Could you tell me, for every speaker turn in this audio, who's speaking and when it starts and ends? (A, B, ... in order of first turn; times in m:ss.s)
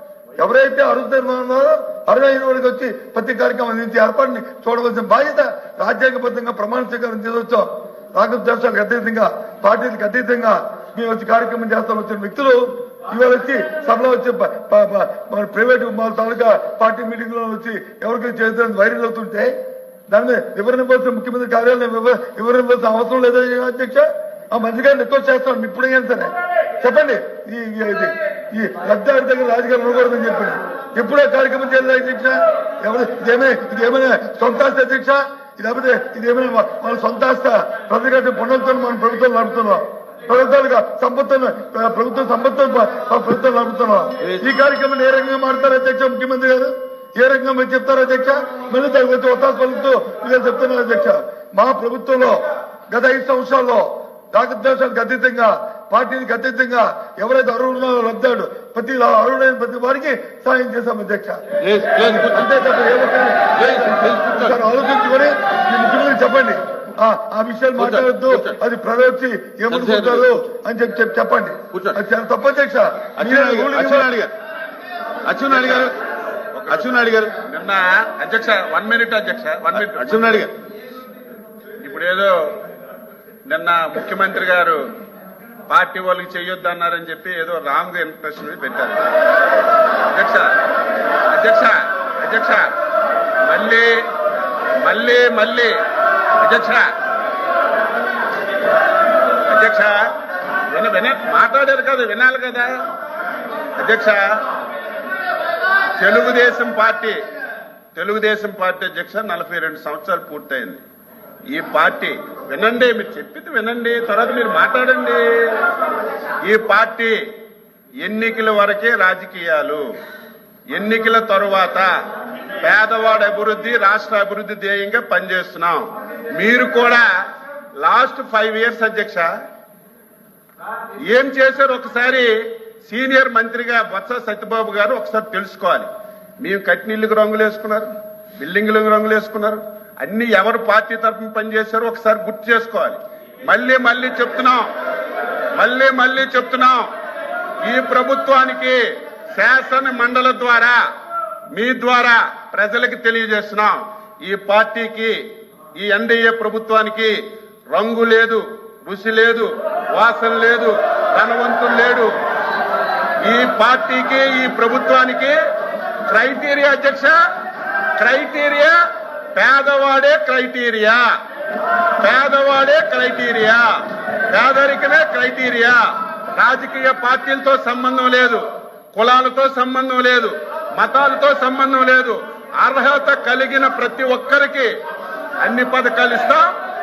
0:00.4-0:19.5 A
0:20.1-1:01.4 A
1:01.6-1:02.5 B
1:01.9-1:14.1 A
1:03.6-1:04.6 B
1:07.8-1:08.6 B
1:09.7-1:10.4 B
1:11.7-1:12.0 B
1:13.2-1:14.3 B
1:15.2-1:15.9 B
1:15.5-1:15.9 C
1:16.6-1:16.9 C
1:16.7-1:17.4 B
1:17.4-1:20.5 C
1:19.7-1:20.5 B
1:21.8-1:22.6 C
1:23.5-1:24.8 C
1:25.7-1:29.1 C
1:30.1-1:30.6 C
1:31.3-1:32.7 C
1:33.4-1:33.9 C
1:34.8-1:35.8 C
1:36.4-1:36.9 C
1:39.5-1:40.1 C
1:40.7-1:42.8 C
1:43.8-1:44.2 C
1:46.0-1:47.2 C
1:47.9-1:50.8 C
1:51.5-1:55.6 C
1:56.4-1:57.2 C
1:58.0-1:59.8 C
2:00.7-2:01.9 C
2:02.6-2:07.1 C
2:07.8-2:09.3 C
2:11.1-2:12.3 C
2:12.8-2:15.9 C
2:16.4-2:24.7 C
2:25.6-2:26.9 C
2:27.6-2:28.8 C
2:29.3-2:30.8 C
2:31.5-2:35.2 C
2:35.8-2:37.2 C
2:37.7-2:42.1 C
2:43.2-2:45.4 C
2:46.1-2:47.2 C
2:48.0-2:48.8 C
2:49.3-2:51.0 C
2:52.0-2:53.7 C
2:54.3-2:55.8 C
2:56.3-3:04.7 C
3:05.4-3:06.5 C